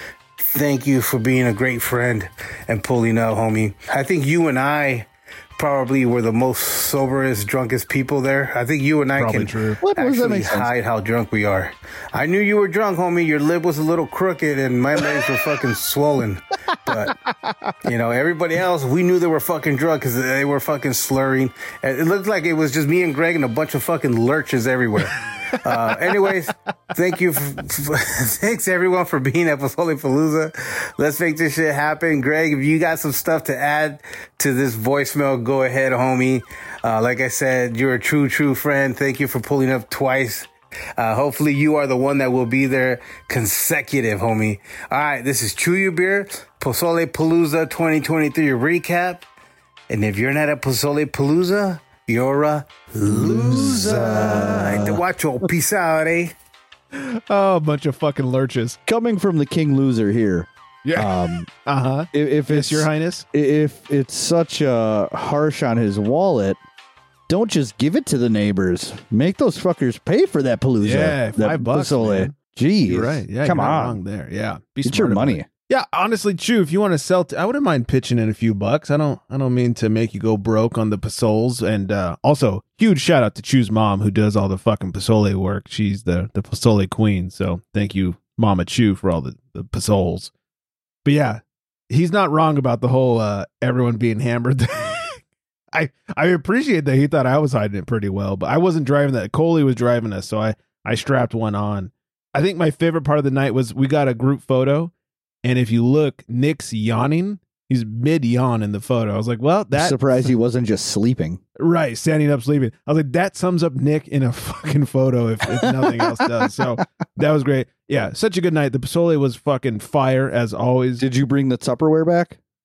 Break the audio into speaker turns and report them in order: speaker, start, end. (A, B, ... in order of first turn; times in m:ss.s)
0:00.4-0:17.1 A
0:09.1-0:09.8 B
0:09.8-0:10.7 C
0:17.1-0:17.7 C
0:17.8-0:49.2 A
0:25.2-0:26.1 B
0:49.9-0:56.3 A
0:53.0-0:55.0 C
0:53.1-0:54.6 B
0:56.9-0:58.8 B
0:58.9-1:01.5 C
1:00.8-1:03.2 B
1:02.1-1:06.6 C
1:07.3-1:14.0 C
1:10.8-1:30.3 B
1:14.8-1:15.5 C
1:31.0-1:35.2 B
1:35.7-1:44.9 B
1:45.4-1:50.0 B
1:49.7-1:51.4 C
1:51.6-2:01.0 B
1:55.6-1:56.5 C
2:01.0-2:02.4 C